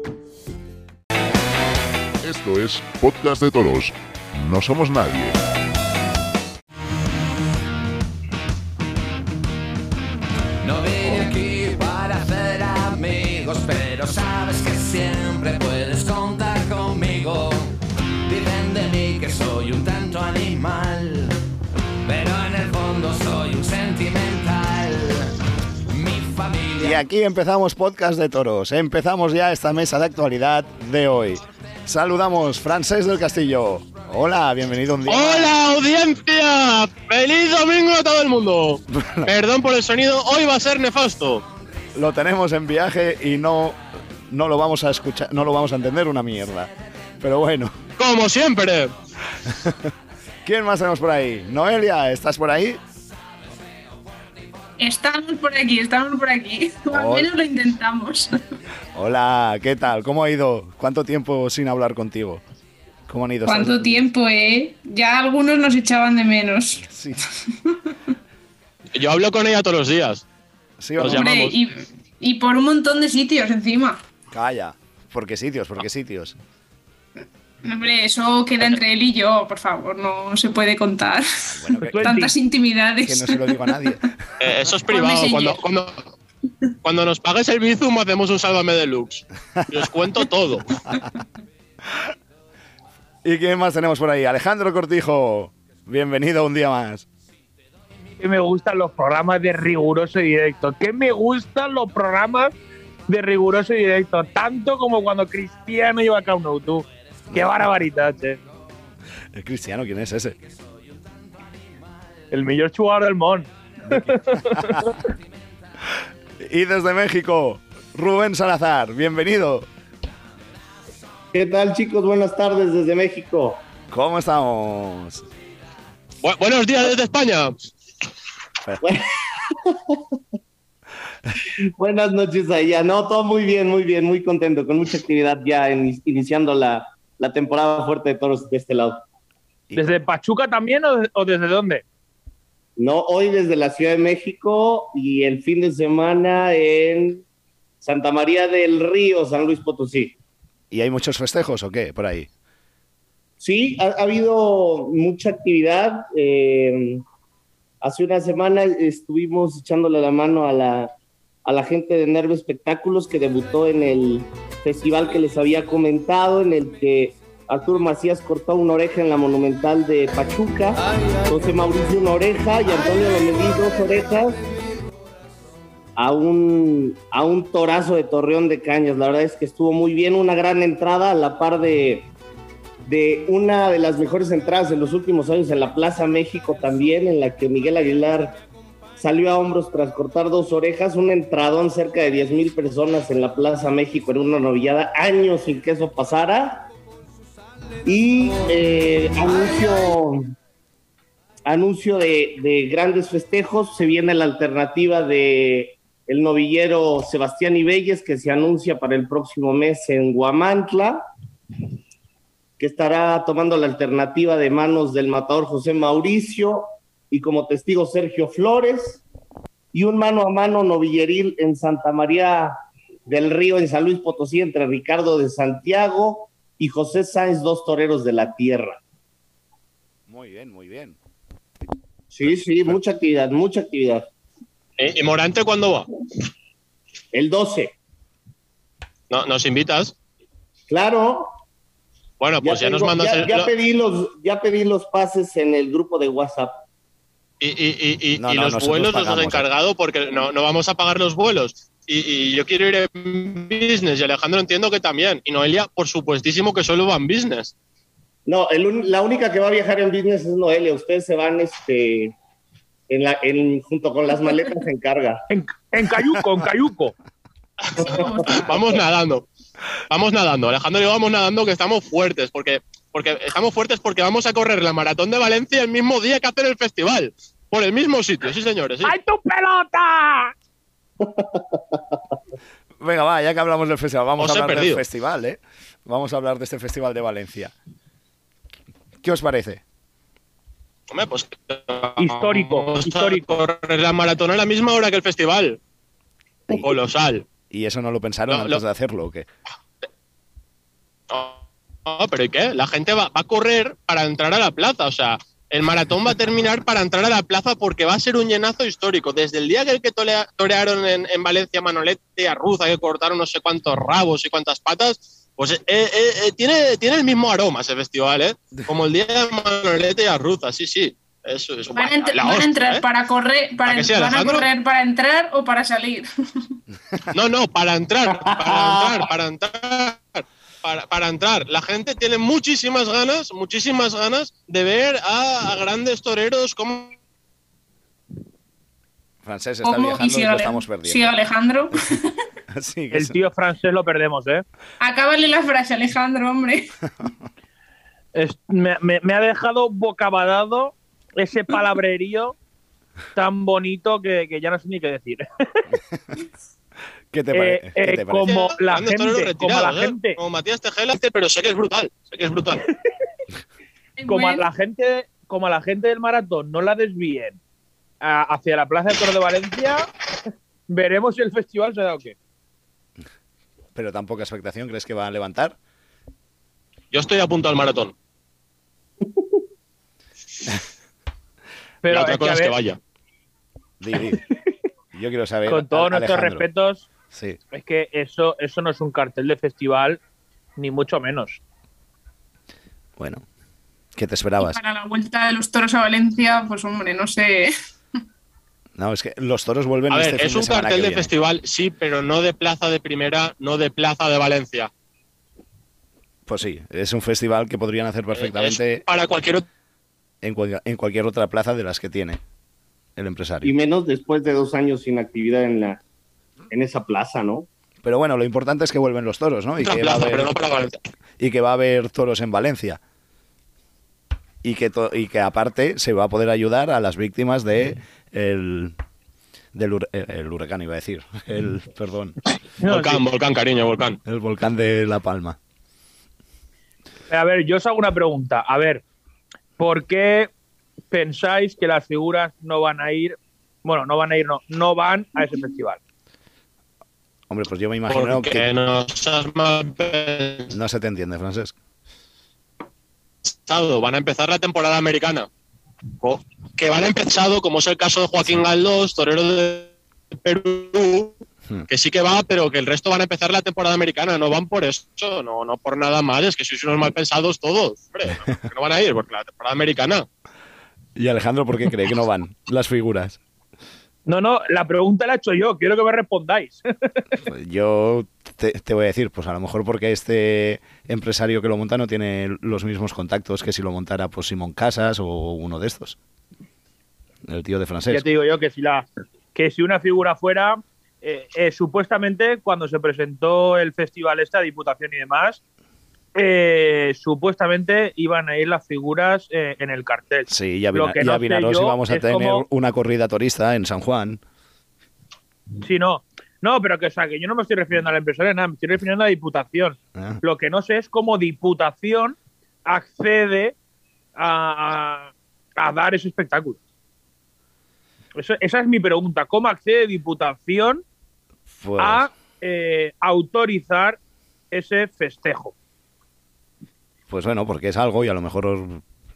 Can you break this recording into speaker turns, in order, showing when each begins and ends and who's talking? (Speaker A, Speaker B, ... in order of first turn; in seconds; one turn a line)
Speaker A: 2.2-5.4
Speaker B: 10.6-21.4
Speaker B: 22.0-25.4
Speaker B: 25.9-27.0
Speaker C: 26.8-35.5
Speaker D: 35.1-41.5
Speaker C: 38.9-39.3
Speaker C: 41.9-47.7
Speaker D: 48.0-48.9
Speaker C: 49.5-49.8
Speaker C: 50.4-52.8
Speaker E: 54.8-58.3
Speaker C: 56.9-57.3
Speaker C: 58.9-62.4
Speaker C: 63.1-64.0
Speaker E: 63.5-66.8
Speaker C: 66.8-67.2
Speaker E: 67.6-67.9
Speaker D: 68.9-70.2
Speaker C: 70.8-71.3
Speaker D: 71.0-71.5
Speaker E: 71.0-74.0
Speaker C: 74.3-76.4
Speaker E: 77.6-83.6
Speaker C: 81.5-82.1
Speaker F: 81.8-82.3
Speaker C: 83.0-84.1
Speaker D: 84.4-86.0
Speaker E: 84.9-85.6
Speaker D: 86.8-90.7
Speaker C: 93.2-97.0
Speaker F: 98.2-102.5
Speaker F: 103.1-108.4
Speaker C: 107.3-107.7
Speaker C: 109.3-110.4
Speaker F: 112.3-114.9
Speaker C: 113.8-114.9
Speaker C: 116.4-119.7
Speaker G: 121.3-123.6
Speaker C: 123.9-125.2
Speaker D: 126.2-127.5
Speaker G: 128.8-130.0
Speaker G: 131.4-139.0
Speaker C: 139.7-140.0
Speaker F: 139.8-141.8
Speaker G: 142.8-147.2
Speaker G: 147.8-150.2
Speaker C: 150.7-152.3
Speaker G: 153.4-157.0
Speaker G: 157.8-160.9
Speaker G: 161.4-174.4
Speaker G: 176.0-182.1
Speaker G: 182.8-188.4
Speaker G: 189.0-196.7
Speaker G: 197.8-200.2
Speaker G: 201.4-211.0
Speaker G: 212.6-219.0
Speaker G: 219.7-222.6
Speaker G: 223.1-228.8
Speaker C: 230.1-231.0
Speaker G: 232.1-234.1
Speaker C: 232.2-232.8
Speaker D: 234.8-235.9
Speaker G: 237.1-237.7
Speaker D: 239.1-239.9
Speaker G: 240.7-241.3
Speaker D: 242.2-243.5
Speaker G: 242.4-246.6
Speaker D: 247.4-257.5
Speaker C: 248.2-249.4
Speaker G: 258.2-262.1
Speaker G: 262.9-265.2
Speaker F: 265.3-266.9
Speaker D: 267.7-269.2
Speaker E: 267.8-268.6
Speaker D: 269.9-278.9
Speaker F: 278.8-280.3
Speaker G: 281.0-282.0
Speaker C: 282.8-287.5
Speaker D: 284.2-284.8
Speaker C: 289.0-289.6
Speaker D: 290.9-295.6
Speaker F: 292.0-293.2
Speaker D: 296.5-297.2
Speaker C: 297.5-299.3
Speaker D: 298.3-298.6
Speaker D: 301.1-322.8
Speaker E: 321.7-326.1
Speaker D: 323.6-324.4
Speaker D: 327.1-336.9
Speaker G: 328.1-329.0
Speaker C: 339.2-341.1
Speaker E: 339.6-341.9
Speaker C: 342.5-343.2
Speaker F: 342.9-344.4
Speaker E: 344.8-346.7
Speaker F: 348.1-352.4
Speaker F: 353.1-355.6
Speaker C: 357.1-358.3
Speaker F: 357.3-360.2
Speaker D: 358.2-362.6
Speaker E: 364.0-364.5
Speaker F: 364.1-367.4
Speaker F: 368.0-369.9
Speaker F: 370.7-372.1
Speaker C: 373.7-375.6
Speaker D: 376.9-377.9
Speaker F: 381.8-382.6
Speaker D: 381.9-382.8
Speaker C: 383.8-384.2
Speaker C: 384.9-386.4
Speaker F: 385.4-386.9
Speaker C: 387.1-387.4
Speaker F: 387.5-390.0
Speaker F: 390.6-391.4
Speaker C: 393.0-393.2
Speaker C: 393.9-394.6
Speaker E: 394.4-397.5
Speaker C: 398.8-401.1
Speaker D: 399.9-404.7
Speaker C: 406.3-408.8
Speaker D: 408.1-409.4
Speaker C: 410.2-412.2
Speaker C: 412.9-413.5
Speaker G: 413.4-415.8
Speaker G: 416.5-417.5
Speaker C: 417.8-420.3
Speaker D: 419.6-420.8
Speaker C: 421.2-422.8
Speaker C: 424.4-428.7
Speaker C: 429.5-432.1
Speaker F: 432.6-433.0
Speaker D: 432.7-434.0
Speaker C: 434.1-435.4
Speaker F: 437.1-438.8
Speaker F: 439.6-440.3
Speaker F: 440.9-445.8
Speaker C: 447.3-448.4
Speaker D: 447.9-450.5
Speaker C: 450.5-451.5
Speaker D: 453.3-455.3
Speaker D: 456.0-461.2
Speaker D: 461.7-470.1
Speaker C: 470.9-473.2
Speaker F: 474.1-476.9
Speaker C: 477.2-486.0
Speaker C: 487.2-488.1
Speaker F: 487.9-495.4
Speaker F: 496.1-502.4
Speaker C: 500.3-504.2
Speaker F: 505.6-513.5
Speaker C: 509.9-510.2
Speaker F: 514.2-516.6
Speaker F: 518.1-520.8
Speaker C: 521.5-522.1
Speaker F: 521.8-524.0
Speaker F: 524.5-525.5
Speaker C: 527.1-528.8